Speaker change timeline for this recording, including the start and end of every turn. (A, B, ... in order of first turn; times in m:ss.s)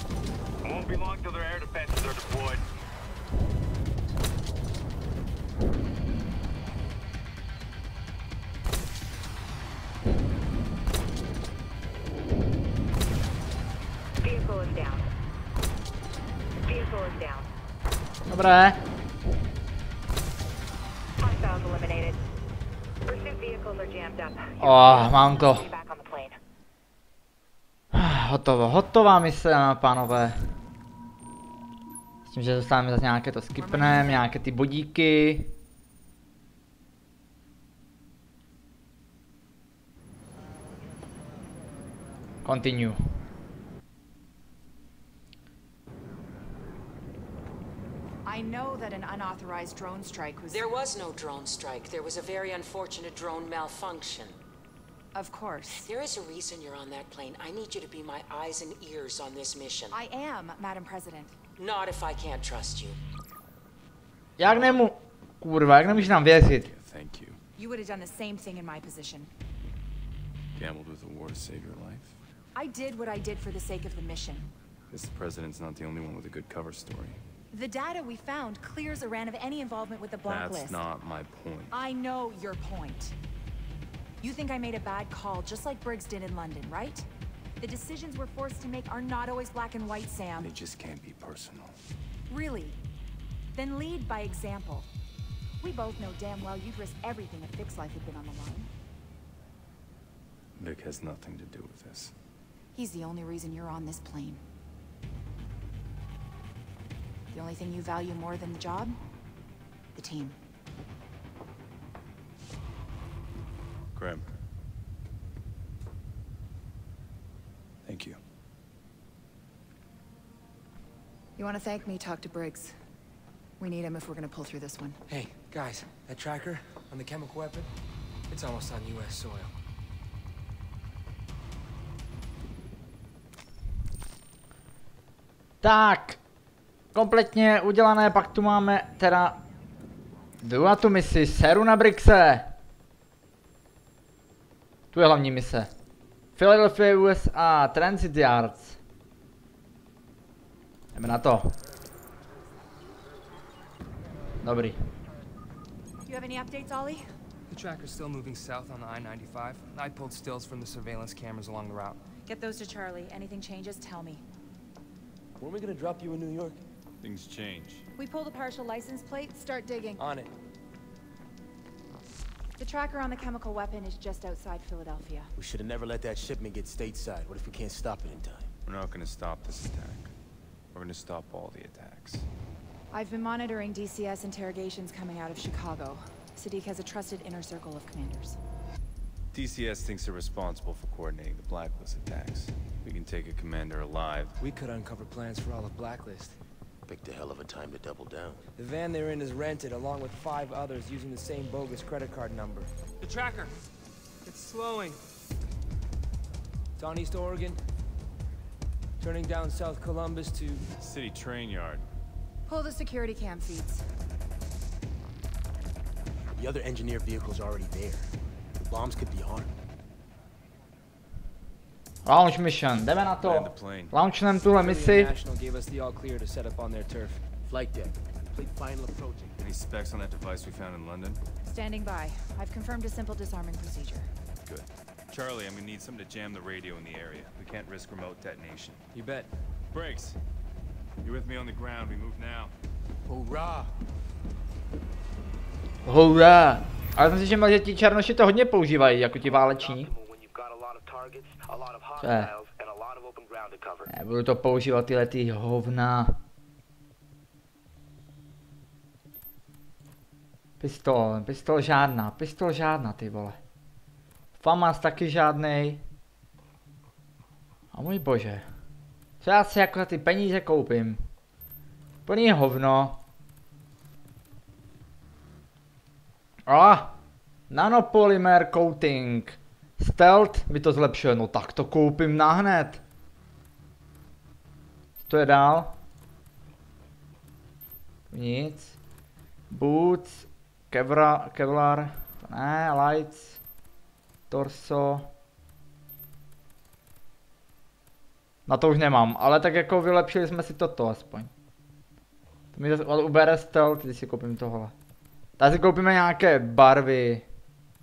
0:00.6-0:02.6 A
0:14.2-0:15.1 B
0:16.6-0:17.5 B
0:18.3-0:18.8 C
0:21.2-0:22.2 B
0:23.0-0:26.4 B
0:24.6-0:25.6 C
0:27.9-0:30.4 C
0:32.3-0:35.5 C
0:33.6-0:34.2 D
0:42.4-0:43.0 C
0:48.2-0:50.8 D
0:50.5-0:54.4 E
0:55.1-0:55.9 D
0:55.8-1:00.0 E
0:59.9-1:01.5 D
1:01.6-1:03.0 E
1:04.4-1:06.7 C
1:05.7-1:07.4 F
1:07.6-1:09.3 D
1:10.5-1:12.2 F
1:12.5-1:14.5 D
1:14.9-1:17.2 F
1:17.5-1:20.8 D
1:20.2-1:21.8 F
1:21.7-1:23.1 D
1:24.2-1:27.1 D
1:27.6-1:30.5 D
1:30.4-1:31.8 F
1:32.3-1:32.8 D
1:33.5-1:34.9 D
1:35.6-1:38.7 D
1:40.6-1:42.1 F
1:42.7-1:44.4 D
1:47.3-1:49.0 D
1:49.9-1:50.4 D
1:53.9-1:54.2 F
1:57.8-1:58.2 F
2:01.4-2:02.8 D
2:03.6-2:05.0 D
2:05.1-2:07.7 G
2:08.3-2:09.5 G
2:15.6-2:16.2 C
2:16.9-2:19.4 C
2:20.4-2:22.5 C
2:24.9-2:25.7 C
2:26.4-2:28.8 C
2:30.9-2:31.6 C
2:34.4-2:34.8 C
2:36.0-2:37.1 D
2:37.5-2:42.0 G
2:42.2-2:44.2 D
2:45.4-2:46.5 G
2:46.2-2:46.5 H
2:47.0-2:47.8 F
2:48.0-2:50.0 D
2:50.0-2:50.3 G
2:52.6-2:55.3 D
2:55.4-2:58.5 H
2:58.6-3:00.1 F
3:00.7-3:02.3 F
3:02.9-3:08.4 D
3:09.3-3:14.4 F
3:14.4-3:16.4 G
3:16.9-3:18.4 H
3:18.6-3:23.5 G
3:24.2-3:25.0 G
3:26.8-3:27.6 G
3:29.0-3:30.6 G
3:30.8-3:31.8 F
3:32.5-3:33.8 D
3:36.4-3:38.1 H
3:38.6-3:39.5 H
3:42.0-3:45.1 C
3:43.2-3:43.9 F
3:44.5-3:47.2 G
3:47.4-3:49.4 H
3:49.4-3:51.2 F
3:51.4-3:54.1 D
3:54.4-3:58.8 F
3:58.9-3:59.3 G
3:59.7-4:00.2 F
4:01.0-4:02.5 F
4:03.0-4:03.7 H
4:05.8-4:09.9 C
4:09.2-4:13.9 A
4:12.0-4:12.3 C
4:13.9-4:16.2 C
4:20.6-4:23.4 C
4:24.4-4:25.8 C
4:27.7-4:28.4 C
4:29.2-4:31.0 C
4:32.0-4:33.0 C
4:36.5-4:36.9 C
4:37.5-4:42.8 C
4:45.0-4:45.7 C
4:48.1-4:48.8 C
4:49.5-4:53.4 C
4:54.3-4:55.1 C
4:58.5-5:01.3 C
5:02.5-5:04.7 C
5:05.4-5:07.2 C